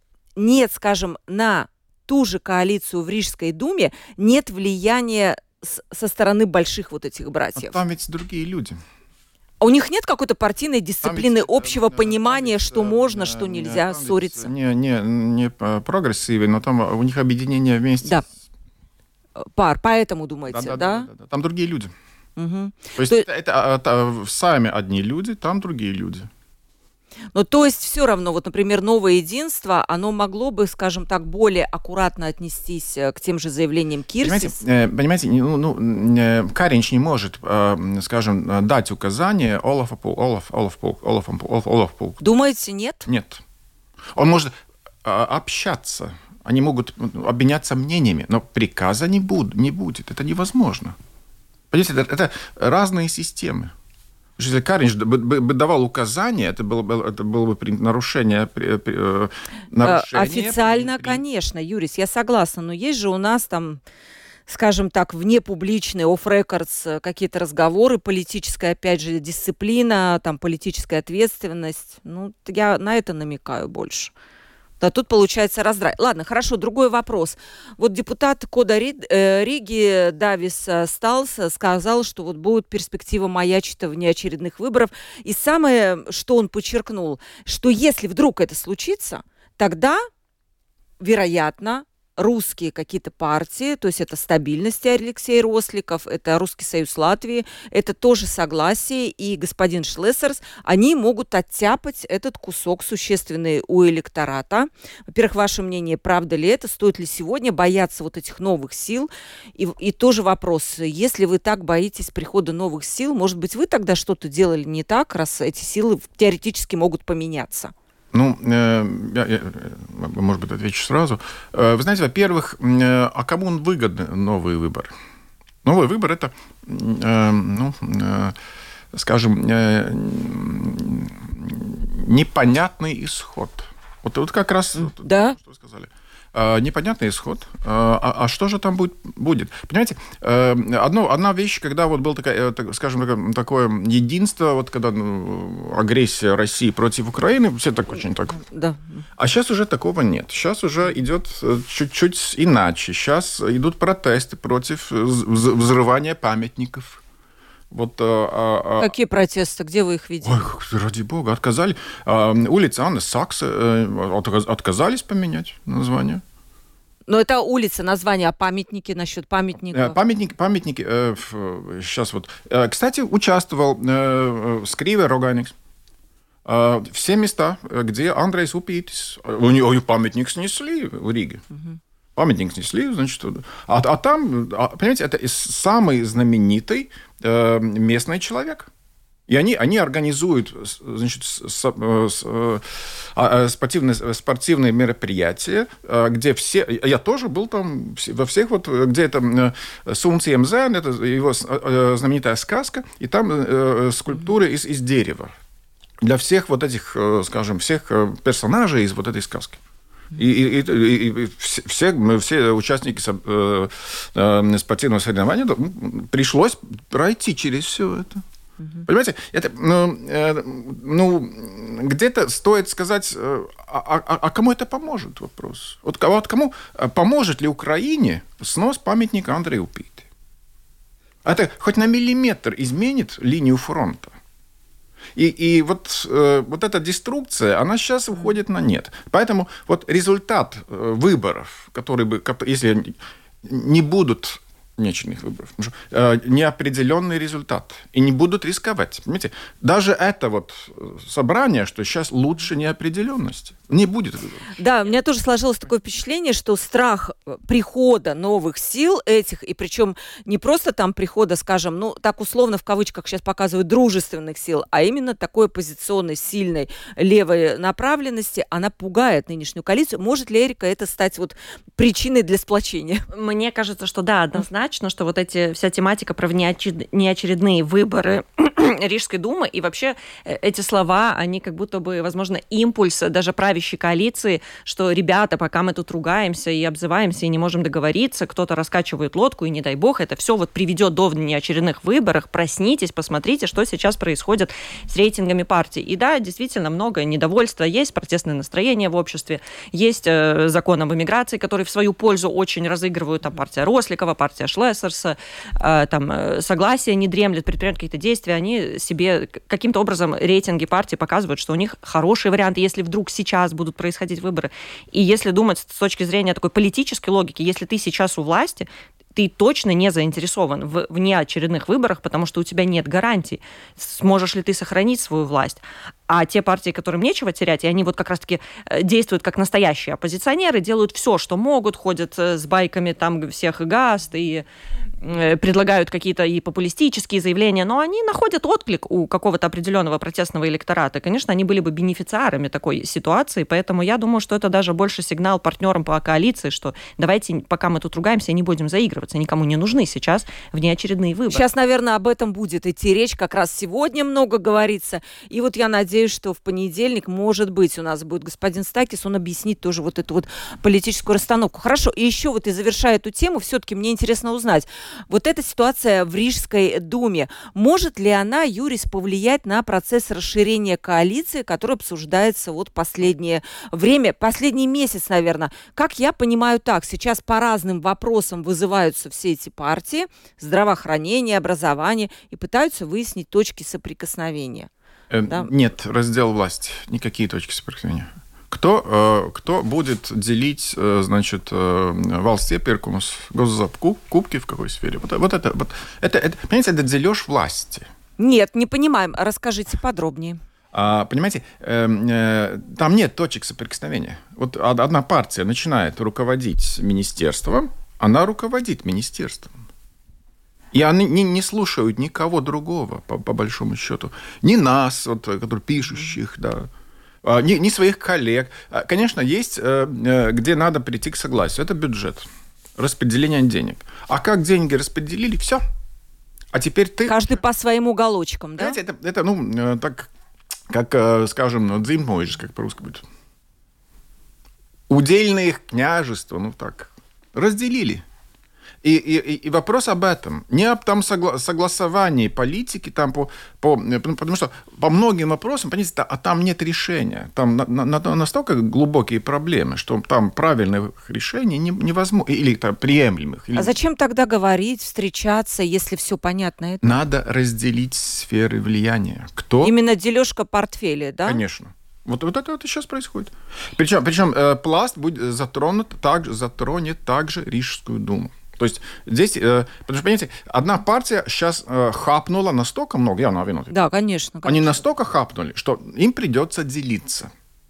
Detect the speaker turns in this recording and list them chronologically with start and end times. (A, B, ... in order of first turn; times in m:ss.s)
0:00.4-0:07.8 A
0:07.6-0:08.8 B
0:09.6-0:14.5 A
0:11.0-0:18.2 B
0:19.4-0:21.1 A
0:20.5-0:21.9 B
0:22.4-0:23.2 A
0:23.0-0:26.3 B
0:27.3-0:34.6 A
0:34.2-0:42.2 B
0:42.2-0:43.1 A
0:43.0-0:43.4 B
0:44.1-0:44.5 B
0:45.0-0:51.0 B
0:51.7-0:53.7 B
0:54.4-1:01.2 B
0:59.8-1:03.8 A
1:04.5-1:14.1 A
1:14.8-1:30.0 A
1:31.0-1:57.7 A
1:58.1-2:04.9 B
2:05.6-2:08.4 B
2:08.9-2:28.4 B
2:14.8-2:15.4 A
2:28.4-2:29.0 A
2:29.2-2:37.0 B
2:37.7-2:38.9 B
2:38.8-2:40.4 A
2:40.2-2:46.2 B
2:47.1-2:50.0 A
2:49.7-2:55.5 B
2:56.4-3:01.4 B
3:02.2-3:08.7 B
3:09.3-3:25.3 B
3:26.0-3:29.6 B
3:30.1-3:38.2 B
3:38.8-3:50.1 B
3:51.2-3:54.1 B
3:55.1-4:14.4 B
4:14.6-4:33.0 A
4:33.1-5:34.4 C
5:35.0-5:51.4 C
5:51.3-6:24.7 A
6:25.1-6:37.9 B
6:38.2-6:40.4 A
6:40.7-6:49.5 B
6:50.7-6:56.7 B
6:57.2-7:05.6 B
7:06.5-7:07.4 B
7:07.0-7:08.8 A
7:08.6-7:10.1 B
7:10.7-7:13.0 B
7:14.9-7:18.0 B
7:18.8-7:33.8 B
7:33.5-7:36.8 A
7:36.8-7:39.7 B
7:39.6-7:41.4 A
7:41.2-7:53.7 B
7:53.7-7:54.8 A
7:54.4-7:57.3 B